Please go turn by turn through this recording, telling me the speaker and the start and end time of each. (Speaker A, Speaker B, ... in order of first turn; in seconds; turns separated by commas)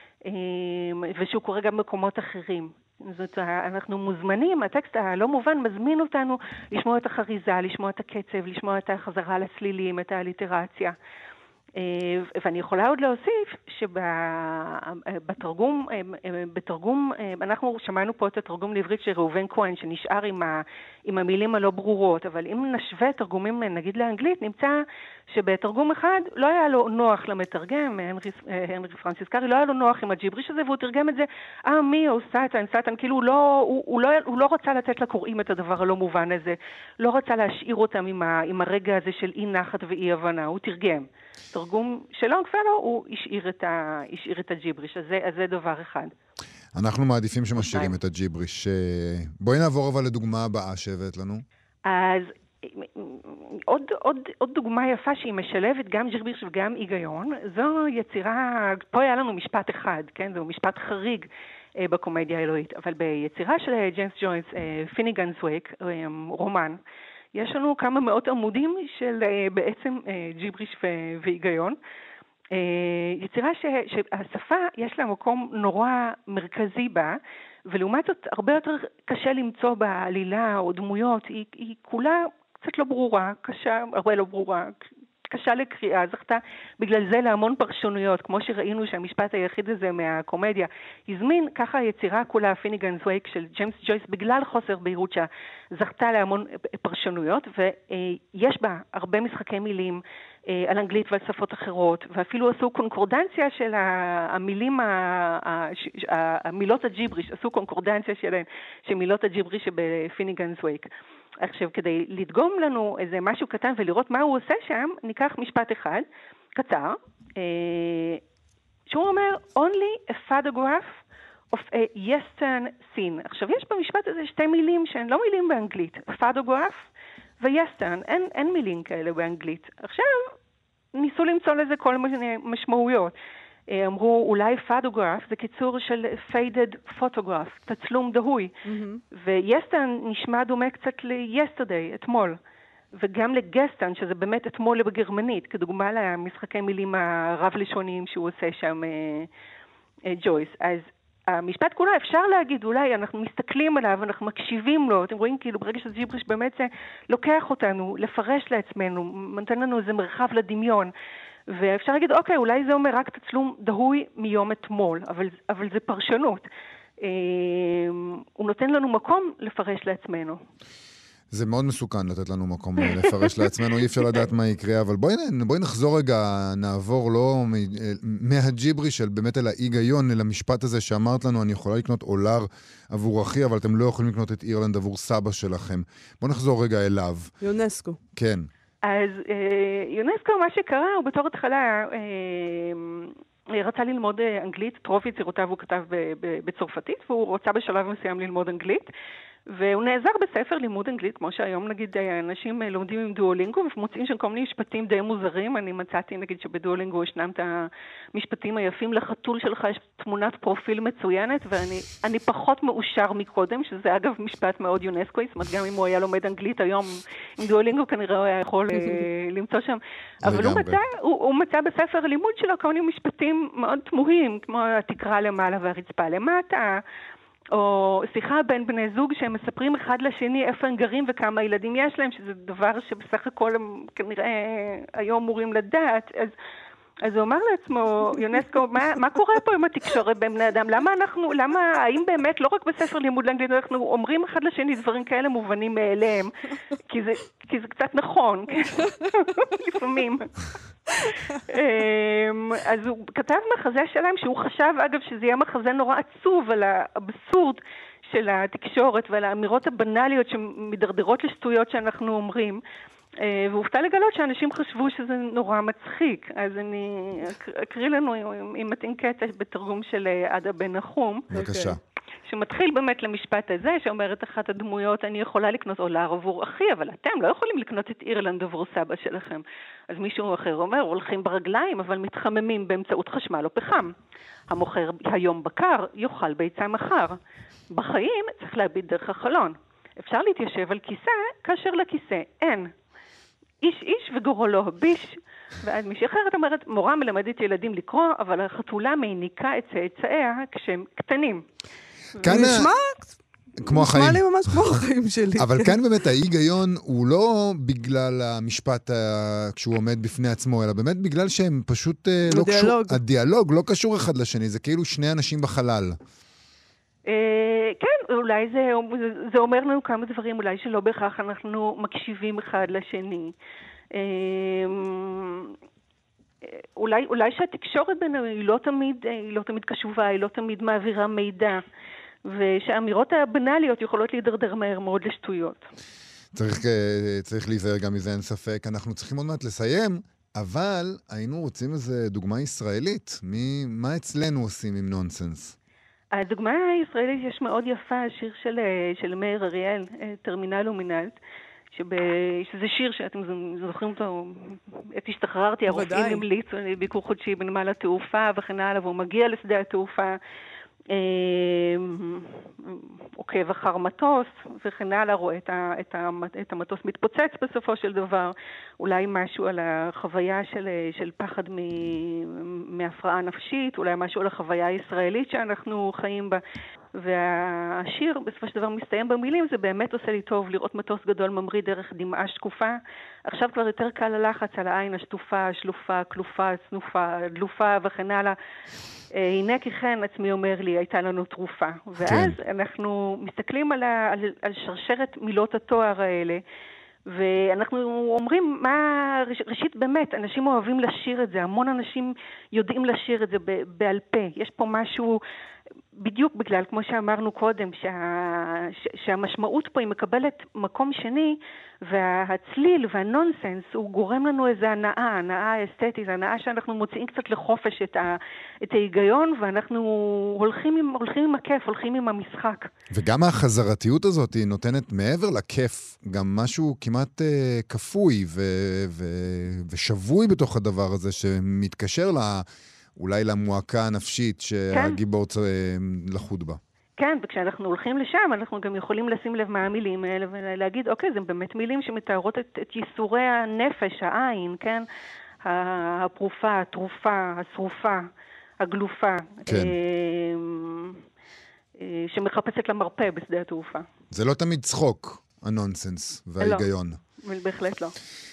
Speaker A: 0.2-10.9, Speaker A: 11.8-46.1, Speaker B: 46.7-51.4, Speaker A: 47.6-47.9, Speaker A: 51.9-61.3, Speaker A: 61.8-66.8, Speaker A: 67.3-71.8, Speaker A: 72.5-84.8, Speaker A: 85.3-110.9, Speaker A: 111.4-118.2, Speaker A: 118.9-121.0, Speaker A: 121.5-126.9, Speaker A: 127.4-130.3, Speaker A: 130.9-133.1, Speaker A: 133.7-138.5, Speaker C: 138.7-139.0, Speaker A: 139.1-142.4, Speaker A: 142.9-149.3, Speaker A: 150.1-160.9, Speaker A: 161.5-166.5, Speaker A: 167.0-170.4, Speaker B: 171.3-187.3, Speaker C: 187.4-188.0, Speaker B: 188.2-188.5, Speaker A: 188.8-198.9, Speaker A: 199.5-226.8, Speaker B: 220.2-220.8, Speaker A: 227.5-236.3, Speaker A: 237.0-246.3, Speaker A: 246.9-262.6, Speaker A: 263.2-271.7, Speaker B: 271.3-271.8, Speaker A: 272.2-283.9, Speaker A: 284.5-292.7, Speaker A: 293.6-301.4, Speaker A: 302.1-302.6, Speaker B: 302.2-302.7, Speaker C: 302.3-305.8, Speaker B: 303.6-304.8, Speaker B: 305.4-316.0, Speaker C: 312.3-313.0, Speaker A: 317.1-323.3, Speaker A: 323.9-325.5, Speaker A: 326.4-331.6, Speaker A: 332.2-335.6, Speaker B: 336.3-345.5, Speaker A: 346.1-351.1, Speaker A: 351.7-360.2, Speaker C: 355.7-356.2, Speaker A: 360.9-376.4, Speaker A: 376.9-388.4, Speaker A: 389.1-396.4, Speaker B: 392.0-392.4, Speaker A: 397.1-405.2, Speaker A: 405.9-422.7, Speaker B: 422.9-436.6, Speaker A: 434.7-435.0, Speaker A: 437.0-444.8, Speaker A: 445.4-448.1, Speaker A: 448.6-451.0, Speaker B: 449.4-449.7, Speaker A: 451.8-453.9, Speaker B: 454.1-457.0, Speaker A: 456.4-457.9